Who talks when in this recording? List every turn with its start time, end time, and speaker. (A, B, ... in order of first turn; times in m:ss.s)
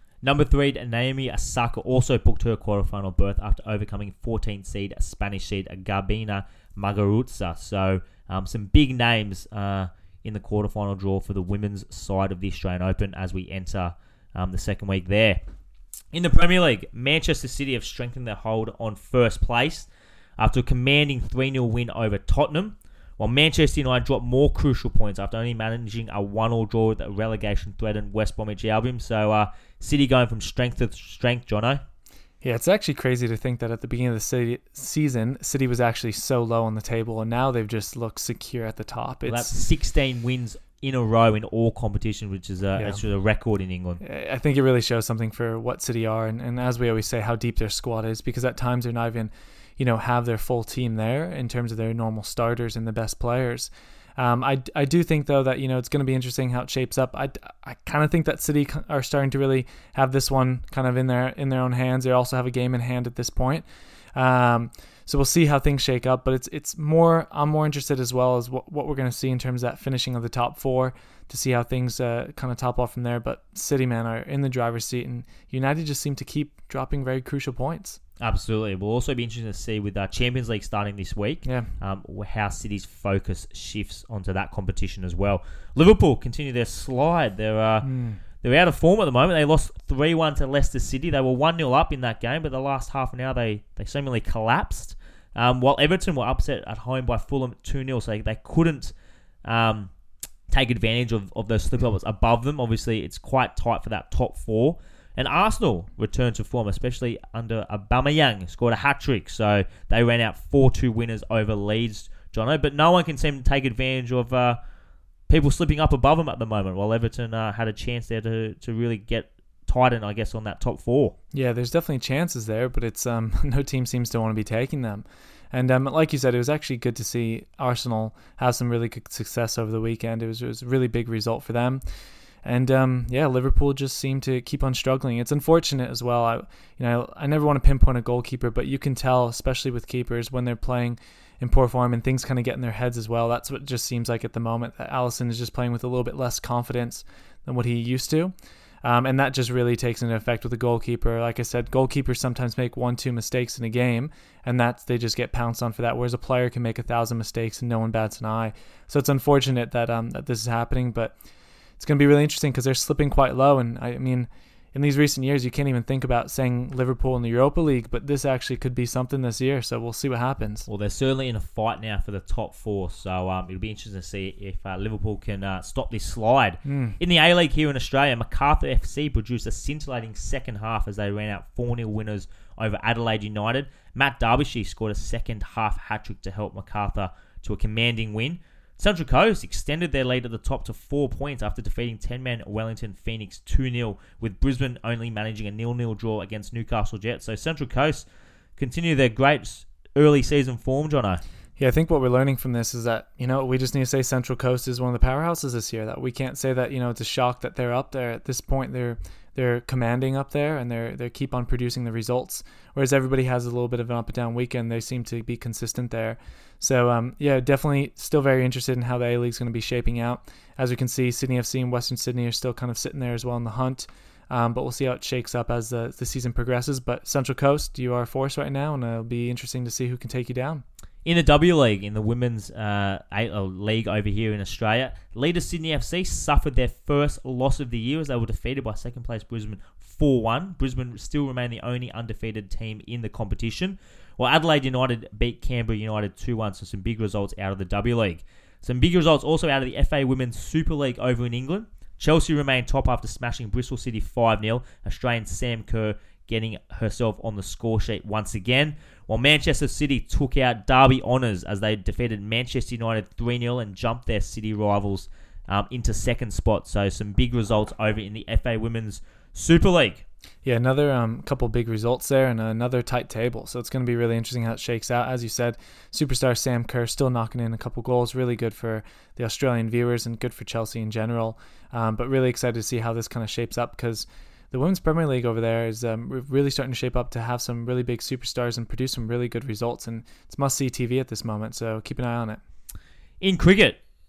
0:00.2-0:15.4 A
0:16.1-0:31.8 A
0:32.4-0:39.5 B
0:39.3-0:44.0 A
0:44.0-1:18.0 B
1:18.2-1:27.9 A
1:21.4-1:21.7 B
1:27.8-1:28.2 B
1:28.4-1:39.9 A
1:40.5-1:54.6 A
1:55.3-2:01.2 A
2:01.3-2:41.2 B
2:41.8-2:50.7 B
2:50.7-3:21.2 A
2:56.6-2:57.0 B
3:21.6-3:50.6 B
3:51.0-4:30.0 A
4:30.4-4:52.4 B
4:53.2-4:53.8 A